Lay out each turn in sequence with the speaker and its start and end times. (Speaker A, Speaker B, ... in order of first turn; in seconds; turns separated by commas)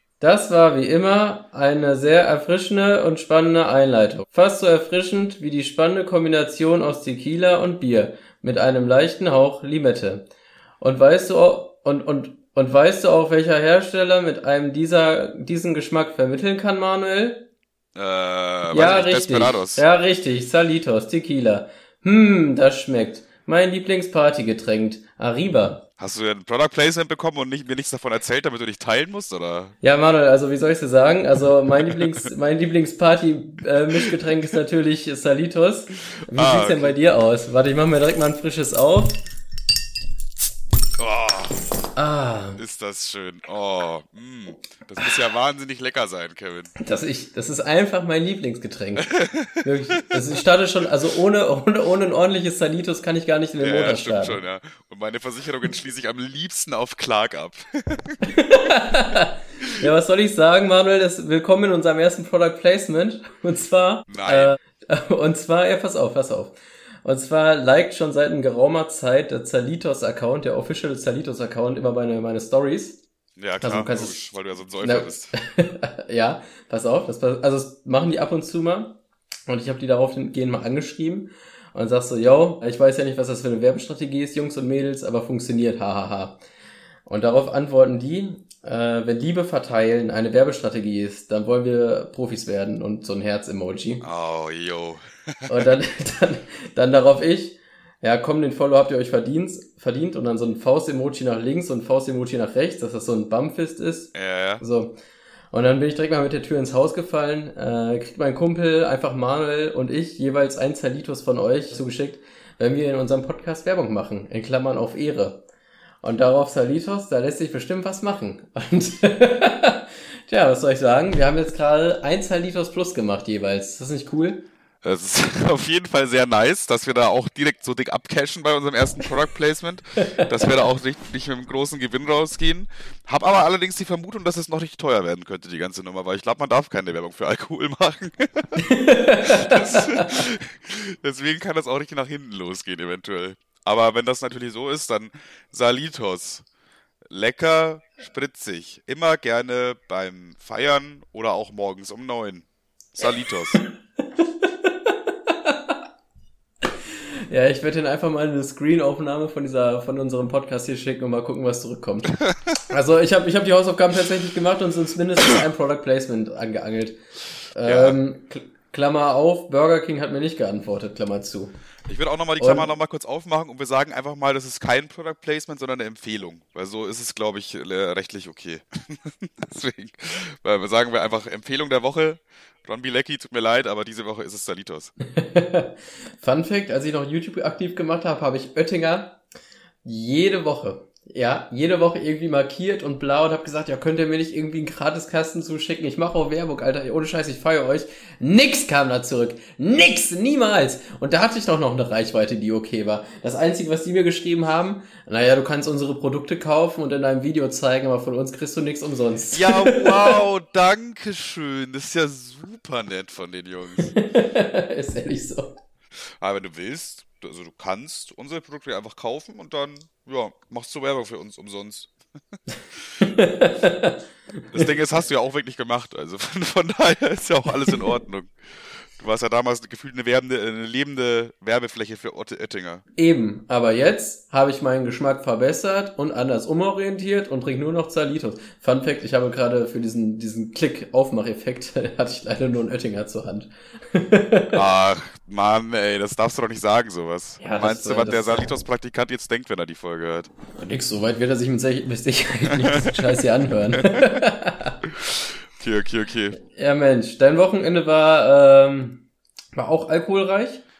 Speaker A: 0.2-10.3, Speaker A: 10.8-17.4, Speaker B: 17.9-19.8, Speaker A: 18.7-25.8, Speaker B: 26.0-29.7, Speaker A: 29.8-39.2, Speaker B: 36.2-37.0, Speaker B: 41.0-41.6, Speaker A: 42.0-42.6, Speaker B: 42.6-46.7, Speaker A: 46.8-54.4, Speaker B: 49.1-50.1, Speaker B: 53.6-58.3, Speaker A: 58.2-73.0, Speaker B: 64.1-64.5, Speaker B: 73.4-75.3, Speaker A: 73.6-74.2, Speaker A: 74.8-86.4, Speaker A: 87.0-94.0, Speaker B: 94.0-95.5, Speaker A: 95.5-104.9, Speaker B: 104.1-104.6, Speaker A: 105.5-115.4, Speaker A: 116.0-124.4, Speaker B: 124.8-138.6, Speaker A: 138.6-140.2, Speaker B: 139.2-146.4, Speaker B: 147.1-153.6, Speaker A: 154.2-155.8, Speaker A: 157.3-167.0, Speaker A: 167.5-171.5, Speaker B: 167.6-168.0, Speaker B: 171.9-184.9, Speaker A: 172.4-172.7, Speaker A: 185.1-189.2, Speaker A: 189.8-210.2, Speaker B: 209.3-213.9, Speaker A: 213.8-215.5, Speaker B: 216.2-221.9, Speaker A: 223.0-224.0, Speaker B: 224.5-228.3, Speaker B: 229.0-232.8, Speaker A: 233.0-244.5, Speaker B: 244.5-250.3, Speaker A: 247.4-248.4, Speaker A: 250.6-254.8, Speaker B: 252.6-253.0, Speaker B: 253.8-254.2, Speaker B: 254.9-256.4, Speaker A: 256.4-260.6